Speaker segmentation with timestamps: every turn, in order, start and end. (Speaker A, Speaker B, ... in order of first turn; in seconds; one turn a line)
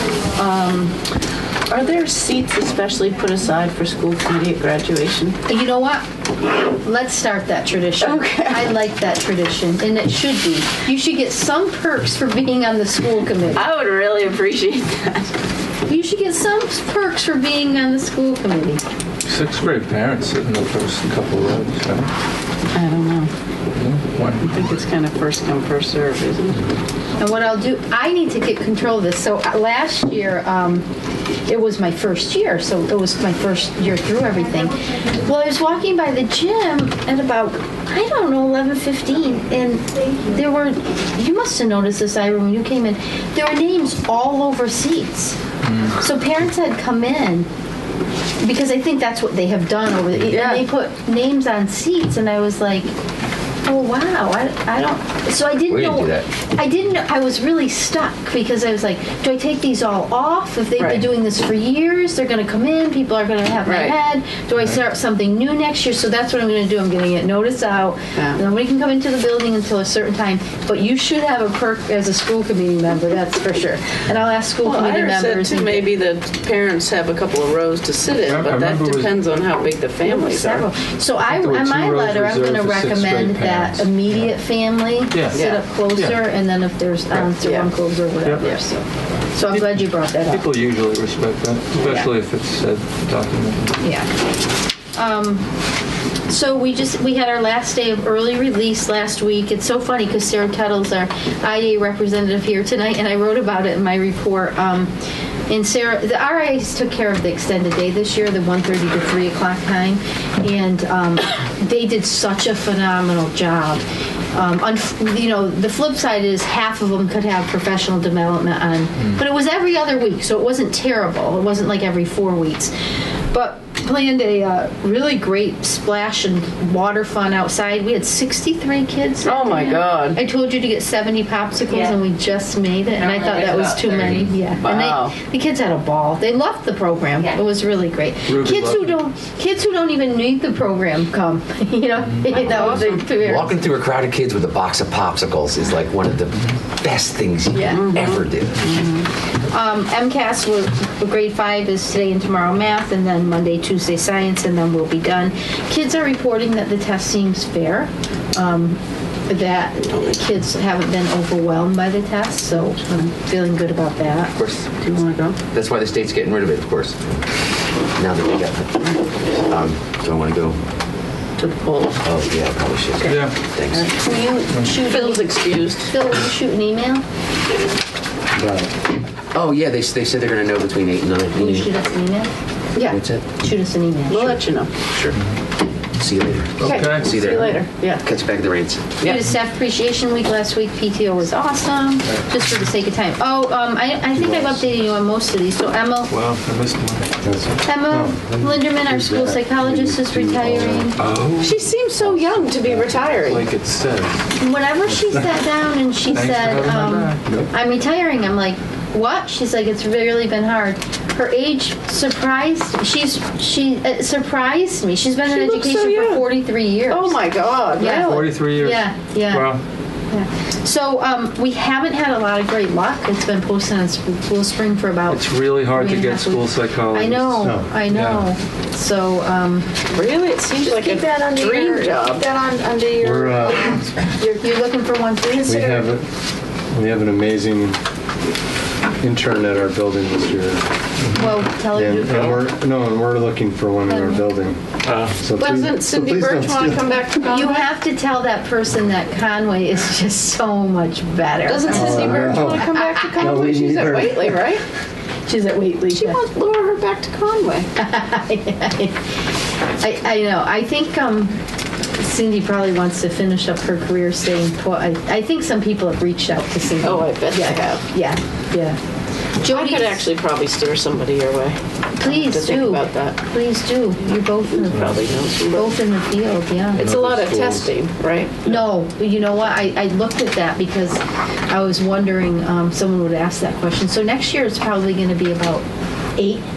Speaker A: 0.3-0.9
Speaker B: 1.7-5.4
Speaker A: 5.5-6.0
Speaker A: 6.8-13.7
Speaker B: 8.0-8.7
Speaker B: 13.5-15.3
Speaker A: 15.9-18.8
Speaker C: 19.2-22.1
Speaker B: 22.7-23.3
Speaker C: 23.7-24.5
Speaker B: 24.3-26.7
Speaker A: 27.2-30.9
Speaker A: 31.4-45.4
Speaker C: 45.6-46.0
Speaker A: 46.0-47.5
Speaker A: 48.4-52.9
Speaker B: 50.2-50.6
Speaker A: 53.6-75.8
Speaker D: 55.7-56.2
Speaker B: 60.8-61.1
Speaker B: 63.6-64.0
Speaker B: 68.1-68.4
Speaker B: 74.6-80.7
Speaker C: 78.1-79.1
Speaker A: 80.0-90.4
Speaker C: 81.2-84.3
Speaker C: 85.1-85.4
Speaker B: 85.3-85.6
Speaker C: 85.9-86.2
Speaker B: 87.4-87.7
Speaker B: 88.4-88.7
Speaker C: 89.5-93.8
Speaker B: 91.7-92.0
Speaker A: 93.8-94.1
Speaker A: 94.9-95.5
Speaker A: 96.3-104.9
Speaker A: 105.5-122.7
Speaker A: 123.3-143.7
Speaker B: 129.2-130.2
Speaker B: 131.7-131.9
Speaker B: 133.0-135.2
Speaker C: 138.3-139.0
Speaker C: 142.0-142.5
Speaker D: 142.3-148.6
Speaker B: 142.6-143.0
Speaker A: 147.5-147.9
Speaker B: 147.7-149.1
Speaker A: 149.5-164.3
Speaker D: 164.3-164.6
Speaker B: 164.8-165.4
Speaker D: 165.5-167.2
Speaker D: 167.9-170.6
Speaker B: 171.4-172.0
Speaker D: 172.0-173.9
Speaker C: 173.1-173.4
Speaker A: 173.7-177.0
Speaker B: 174.7-175.9
Speaker E: 178.3-178.7
Speaker D: 179.3-181.7
Speaker A: 181.4-184.4
Speaker D: 182.9-183.2
Speaker B: 184.1-184.7
Speaker D: 184.9-185.2
Speaker D: 186.0-188.9
Speaker C: 186.6-187.5
Speaker B: 186.6-188.0
Speaker A: 189.0-196.1
Speaker E: 194.1-194.6
Speaker C: 196.1-197.1
Speaker E: 197.2-201.0
Speaker A: 197.6-201.0
Speaker C: 201.0-201.6
Speaker B: 201.4-203.4
Speaker E: 202.6-203.4
Speaker C: 203.2-204.2
Speaker A: 204.4-217.2
Speaker C: 206.1-207.2
Speaker B: 215.2-218.3
Speaker A: 217.7-219.5
Speaker C: 217.9-219.6
Speaker A: 220.1-229.7
Speaker C: 225.1-228.2
Speaker E: 227.4-227.7
Speaker B: 229.9-232.2
Speaker A: 230.8-231.2
Speaker F: 231.0-233.8
Speaker E: 233.0-233.8
Speaker A: 234.3-235.9
Speaker E: 235.4-236.1
Speaker E: 236.7-237.8
Speaker E: 239.0-240.7
Speaker C: 241.0-241.3
Speaker A: 241.1-242.5
Speaker E: 241.7-246.9
Speaker A: 243.9-244.3
Speaker C: 244.8-245.2
Speaker B: 245.4-247.7
Speaker A: 247.2-253.1
Speaker B: 251.4-254.6
Speaker E: 251.7-254.4
Speaker A: 255.3-256.2
Speaker B: 255.8-257.7
Speaker A: 257.8-259.0
Speaker A: 259.8-261.4
Speaker A: 262.0-268.8
Speaker B: 266.8-267.9
Speaker A: 269.4-270.0
Speaker B: 269.5-273.2
Speaker A: 272.0-275.0
Speaker B: 274.5-275.8
Speaker A: 275.5-276.9
Speaker B: 276.8-278.6
Speaker C: 276.8-277.7
Speaker A: 278.4-285.6
Speaker A: 286.2-286.4